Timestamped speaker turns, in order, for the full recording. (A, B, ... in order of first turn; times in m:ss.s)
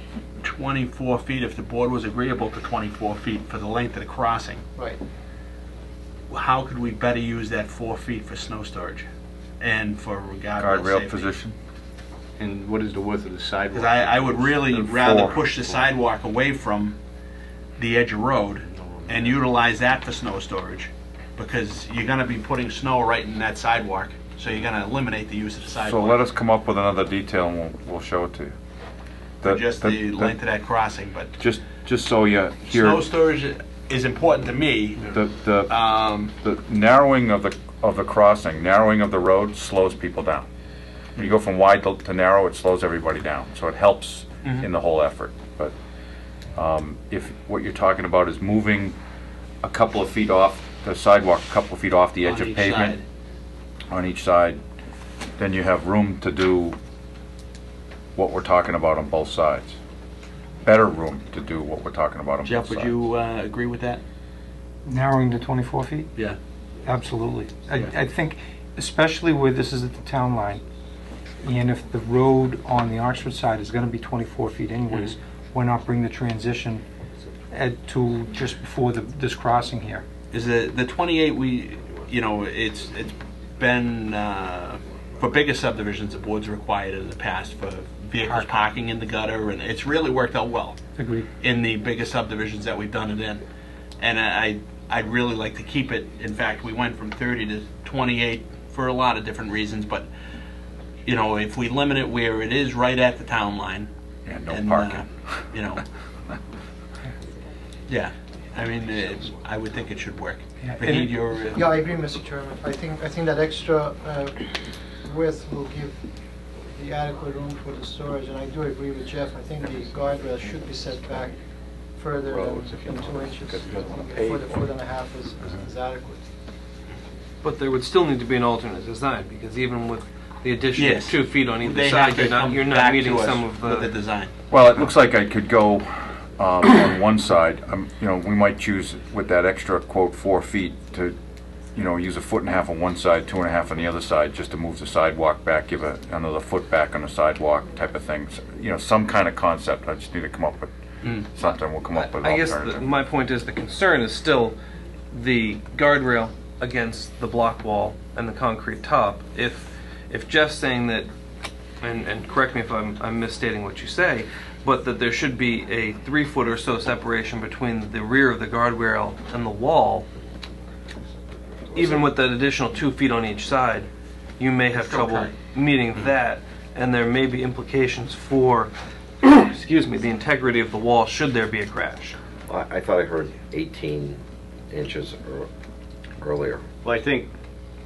0:00.4-0:04.6 A
0:04.8-0:05.0 B
0:06.3-0:09.1 A
0:09.6-0:11.3 A
0:10.6-0:11.6 C
0:12.4-0:14.9 D
0:13.7-0:17.0 A
0:14.7-0:15.2 E
0:15.4-0:15.9 D
0:17.8-0:26.2 A
0:18.6-0:19.4 D
0:25.7-0:28.6 C
0:29.4-0:30.4 C
0:29.5-0:31.4 A
0:31.4-0:33.1 C
0:32.7-0:35.1 A
0:35.0-0:40.5 C
0:35.7-0:36.3 A
0:41.2-0:45.7 C
0:46.6-0:49.0 C
0:49.6-0:53.0 C
0:52.2-0:53.0 A
0:53.9-0:54.6 C
0:55.4-0:56.8 C
0:58.2-0:59.8 C
1:00.6-1:03.0 C
1:02.4-1:04.0 A
1:04.9-1:06.1 F
1:06.8-1:10.6 F
1:11.4-1:16.8 F
1:17.5-1:20.0 F
1:20.3-1:30.8 A
1:31.0-1:31.3 F
1:31.4-1:33.4 A
1:34.0-1:40.1 A
1:41.0-1:43.9 A
1:44.2-1:45.5 C
1:44.5-1:45.8 A
1:47.9-1:51.9 A
1:50.6-1:51.2 F
1:51.5-1:54.4 B
1:55.0-1:56.0 B
1:56.7-2:01.4 B
2:02.0-2:06.2 B
2:02.3-2:04.6 D
2:07.4-2:14.0 E
2:10.7-2:14.3 A
2:14.5-2:21.2 C
2:21.7-2:33.0 C
2:31.9-2:34.6 E
2:35.1-2:41.1 E
2:41.8-2:50.1 E
2:51.7-3:02.2 E
2:54.8-2:55.3 A
3:02.5-3:05.5 G
3:06.2-3:06.6 G
3:06.8-3:07.3 D